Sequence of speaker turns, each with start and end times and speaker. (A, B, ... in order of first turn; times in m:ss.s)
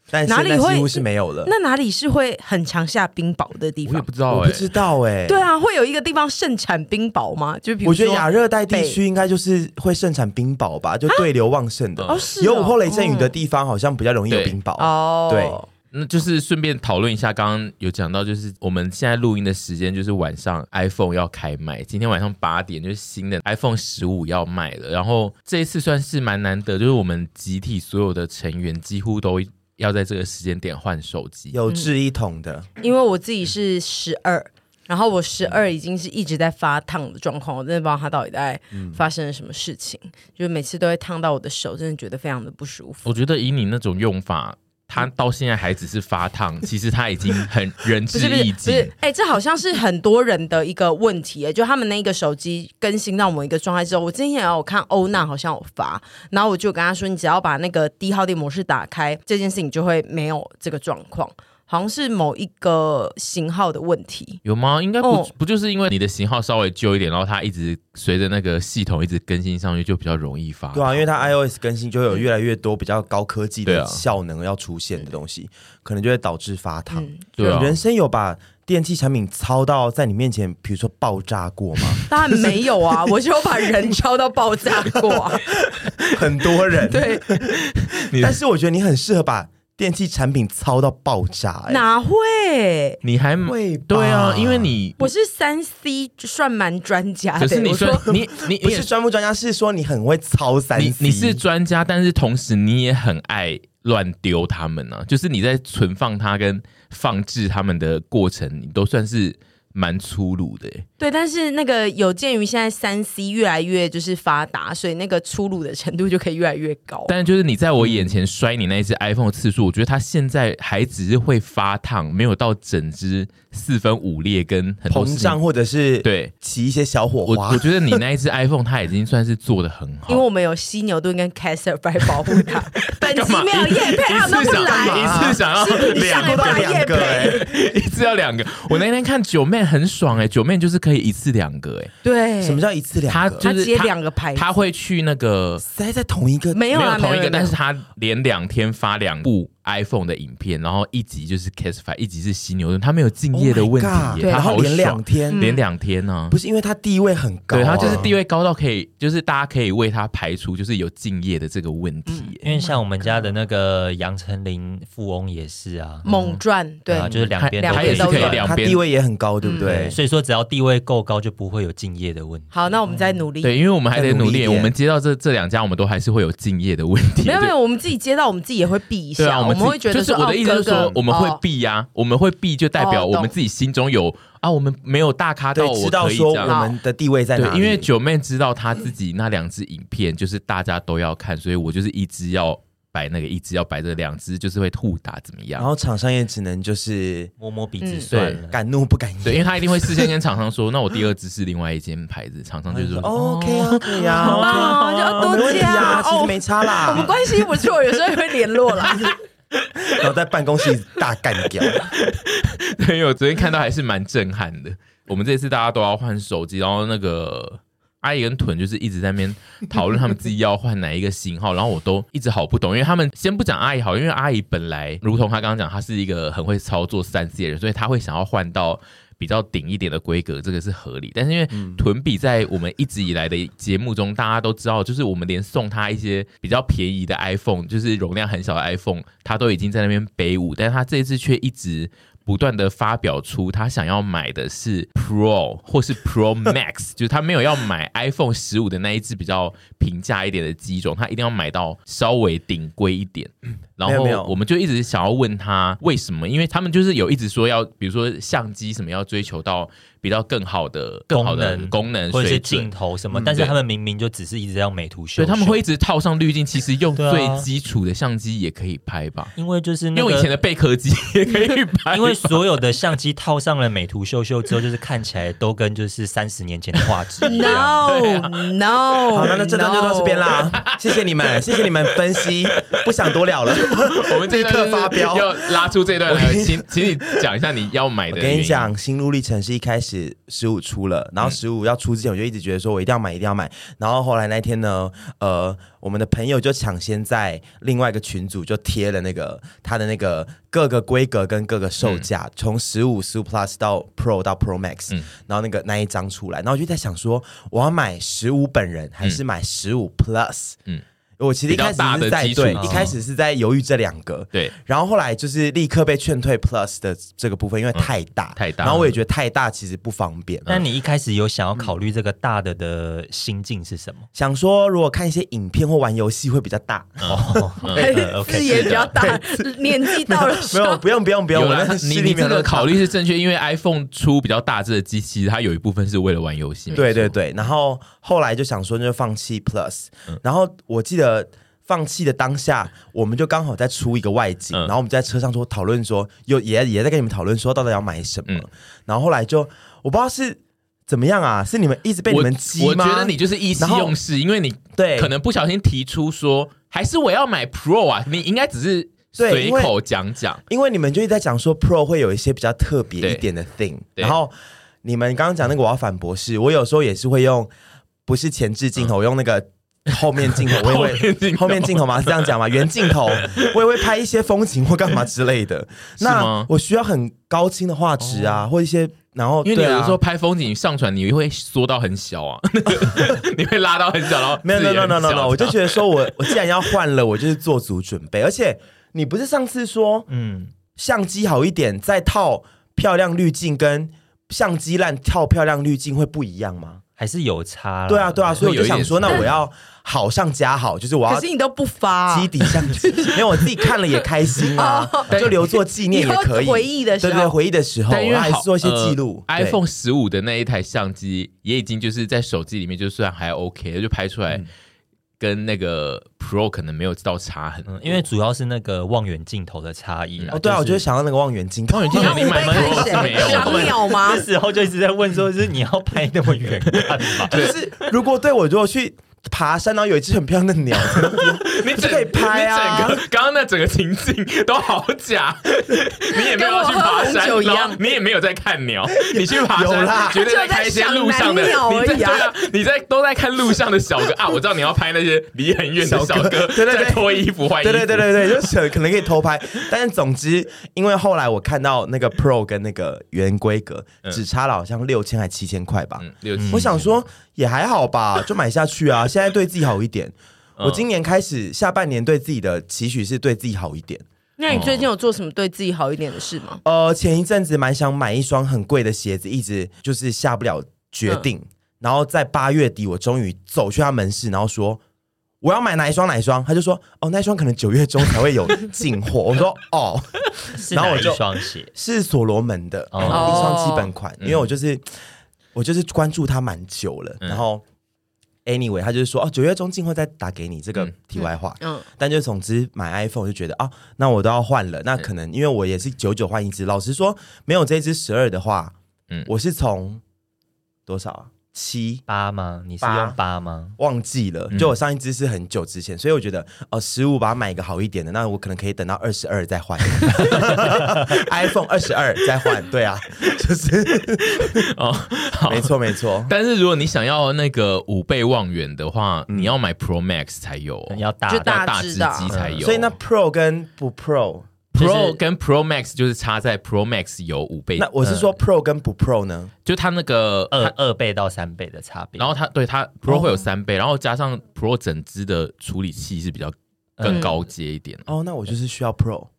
0:00.1-0:01.5 A
0:00.2-0:04.1 B
0:03.8-0:04.7 C
0:04.3-0:05.4 A
0:05.3-0:09.0 B
0:07.8-0:15.6 A
0:12.0-0:12.3 C
0:12.1-0:13.3 B
0:14.3-0:14.6 C
0:14.8-0:15.7 B
0:15.9-0:31.6 C
0:31.5-0:32.7 A
0:32.8-0:43.0 B
0:38.7-0:39.0 A
0:43.0-0:48.9 C
0:48.1-1:04.4 B
1:04.4-1:11.2 C
1:05.0-1:05.3 B
1:10.7-1:22.7 A
1:13.6-1:14.0 C
1:16.9-1:17.2 B
1:17.4-1:17.8 C
1:22.1-1:25.4 B
1:23.6-1:23.9 A
1:25.1-1:31.8 A
1:26.8-1:27.2 B
1:27.4-1:28.4 C
1:31.7-1:33.0 B
1:33.0-1:35.1 C
1:33.4-1:34.7 A
1:35.0-1:38.1 B
1:37.4-1:38.9 C
1:38.5-1:41.4 A
1:40.8-1:50.8 C
1:51.0-1:57.1 B
1:57.1-2:05.4 C
1:57.8-1:58.1 A
2:04.9-2:08.0 A
2:06.0-2:06.3 C
2:07.2-2:10.2 C
2:10.1-2:17.5 B
2:12.9-2:21.9 C
2:14.3-2:17.4 A
2:22.0-2:22.6 B
2:22.4-2:23.4 A
2:23.1-2:25.6 C
2:23.4-2:24.5 B
2:25.6-2:26.6 A
2:26.5-2:27.6 B
2:26.7-2:36.4 C
2:33.3-2:35.4 A
2:34.2-2:34.6 B
2:35.3-2:35.6 B
2:36.3-2:38.1 A
2:37.5-2:42.4 C
2:42.1-2:42.4 B
2:42.4-2:46.0 D
2:46.0-2:48.4 B
2:46.1-2:46.4 C
2:46.9-2:48.5 D
2:47.1-2:48.8 C
2:48.4-2:50.0 A
2:49.4-2:49.8 B
2:49.6-2:52.5 D
2:52.5-2:53.5 B
2:53.4-2:57.5 C
2:53.9-2:54.7 A
2:57.2-3:01.4 B
2:59.2-3:06.6 C
3:00.8-3:01.0 A
3:02.8-3:03.3 B
3:05.5-3:07.9 A
3:06.4-3:06.7 B
3:07.4-3:15.7 C
3:15.6-3:17.3 A
3:17.4-3:18.6 D
3:17.8-3:18.1 B
3:18.1-3:18.4 C
3:18.5-3:20.1 A
3:19.2-3:26.0 C
3:22.7-3:27.1 A
3:23.1-3:29.2 B
3:29.9-3:31.9 A
3:31.6-4:23.5 C
3:51.5-3:51.8 A
4:13.8-4:14.3 A
4:21.1-4:25.6 D
4:25.2-4:29.3 C
4:27.0-4:27.5 D
4:29.4-4:30.3 D
4:29.9-4:32.4 C
4:31.9-4:37.8 D
4:37.2-4:40.3 B
4:37.3-4:38.4 C
4:39.1-4:47.2 A
4:40.6-4:41.0 C
4:42.4-4:42.8 C
4:43.6-4:48.7 C
4:48.1-5:10.6 A
5:01.8-5:02.0 C
5:11.2-5:20.5 A
5:11.5-5:12.9 C
5:12.5-5:12.9 D
5:17.7-5:18.9 C
5:20.5-5:24.1 D
5:24.1-5:32.8 A
5:27.0-5:27.9 C
5:27.1-5:28.9 D
5:27.8-5:30.8 B
5:31.3-5:37.1 C
5:36.7-5:54.0 A
5:52.1-6:00.4 C
5:54.8-5:55.1 A
5:59.2-5:59.7 A
6:00.5-6:04.3 A
6:03.0-6:03.2 C
6:04.8-6:07.5 A
6:08.0-6:20.0 A
6:10.2-6:12.3 C
6:12.8-6:13.5 C
6:16.0-6:16.5 C
6:18.0-6:18.5 C
6:19.4-6:26.3 C
6:22.7-6:23.1 A
6:24.4-6:30.1 A
6:30.1-6:30.5 D
6:30.8-6:36.8 A
6:37.0-6:39.2 D
6:37.9-6:41.2 A
6:38.4-6:39.3 C
6:41.1-6:44.0 B
6:42.1-6:49.6 A
6:44.5-6:45.2 B
6:45.1-6:45.4 C
6:45.9-6:47.4 B
6:47.9-6:54.4 C
6:55.2-6:58.1 C
6:57.7-7:00.8 D
7:00.3-7:03.6 A
7:01.7-7:03.7 C
7:01.9-7:04.2 B
7:02.6-7:07.3 D
7:06.8-7:07.5 C
7:07.3-7:13.0 A
7:10.9-7:28.4 C
7:16.1-7:17.8 B
7:19.0-7:20.2 A
7:20.1-7:22.3 B
7:25.8-7:44.0 A
7:36.0-7:36.9 C
7:36.4-7:36.6 D
7:44.4-7:46.6 B
7:44.5-7:44.9 C
7:46.6-7:54.8 A
7:55.4-8:05.0 A
8:00.5-8:01.7 D
8:02.9-8:03.4 D
8:03.0-8:03.3 C
8:03.1-8:03.9 B
8:04.2-8:04.5 C
8:05.5-8:07.6 A
8:08.4-8:18.7 A
8:11.6-8:11.8 B
8:19.2-8:20.0 A
8:20.9-8:22.0 A
8:22.1-8:23.7 D
8:22.8-8:23.2 A
8:23.8-8:34.6 A
8:30.0-8:30.3 C
8:34.3-8:35.7 C
8:35.5-8:36.3 A
8:36.2-8:42.9 C
8:40.9-8:41.6 D
8:41.3-8:42.3 B
8:42.3-8:42.6 D
8:42.6-8:45.2 A
8:44.7-8:47.9 C
8:47.8-8:49.5 A
8:48.0-8:48.3 D
8:49.6-8:50.7 C
8:50.5-8:52.3 D
8:52.2-8:58.0 C
8:53.1-8:53.4 A
8:57.0-8:57.3 D
8:58.1-8:59.3 A